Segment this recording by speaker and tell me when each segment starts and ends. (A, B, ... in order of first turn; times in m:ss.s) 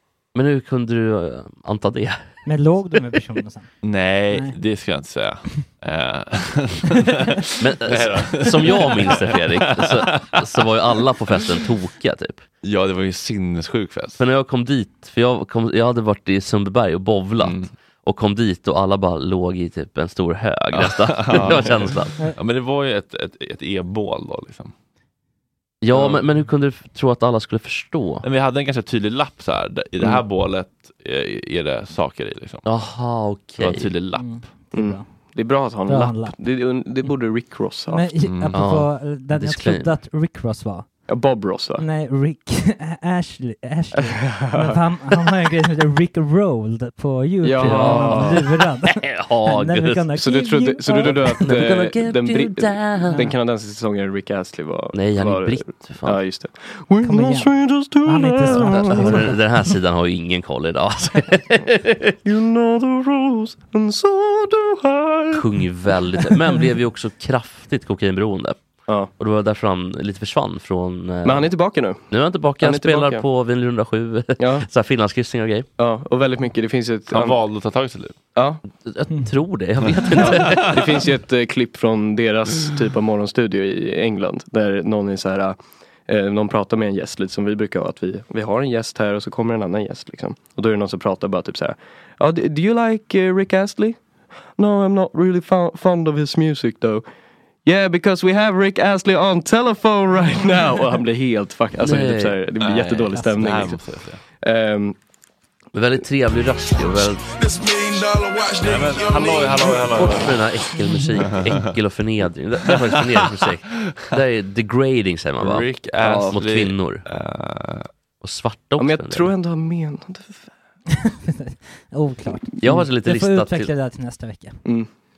0:00.4-0:02.2 A
0:02.5-0:03.7 B
0:03.8-0:10.8 C
0:04.3-0:04.6 B
0:07.6-0:12.4 A
0:11.3-0:11.6 C
0:12.6-0:14.2 C
0:14.2-0:22.2 A
0:17.4-0:17.7 C
0:20.7-0:24.7 C
0:25.8-0:28.3 A
0:25.9-0:26.2 D
0:28.2-0:32.7 C
0:32.6-0:33.9 A
0:33.6-0:34.4 C
0:34.2-0:35.1 B
0:34.7-0:38.1 D
0:35.9-0:36.4 B
0:37.9-0:41.1 B
0:38.2-0:38.6 C
0:38.5-0:39.9 A
0:41.1-0:41.8 D
0:41.8-0:51.5 B
0:44.0-0:44.8 D
0:47.4-0:48.4 D
0:47.6-0:50.1 A
0:50.2-0:59.3 D
0:51.2-0:53.3 A
0:54.9-0:56.2 A
0:57.0-0:59.7 B
0:58.7-1:02.2 A
1:02.2-1:06.4 D
1:05.3-1:08.6 A
1:08.9-1:09.1 D
1:09.2-1:11.5 A
1:11.2-1:13.2 D
1:12.1-1:15.7 A
1:14.4-1:14.7 D
1:15.8-1:17.4 D
1:17.1-1:18.2 C
1:18.4-1:18.6 D
1:18.8-1:20.8 A
1:19.1-1:19.4 B
1:20.2-1:20.7 C
1:20.2-1:34.0 D
1:34.6-1:37.0 D
1:37.6-1:43.8 D
1:41.8-1:42.4 A
1:42.6-1:44.2 C
1:43.2-1:43.7 B
1:44.4-1:45.0 D
1:45.7-1:47.3 A
1:46.8-1:50.0 E
1:48.6-1:50.5 C
1:49.4-1:50.1 D
1:50.0-1:57.0 A
1:51.2-1:51.7 C
1:52.7-1:54.1 C
1:55.4-1:57.9 C
1:56.0-1:56.4 D
1:58.2-1:59.3 A
1:58.8-2:00.5 D
2:01.0-2:04.6 B
2:02.6-2:03.7 A
2:04.6-2:04.9 D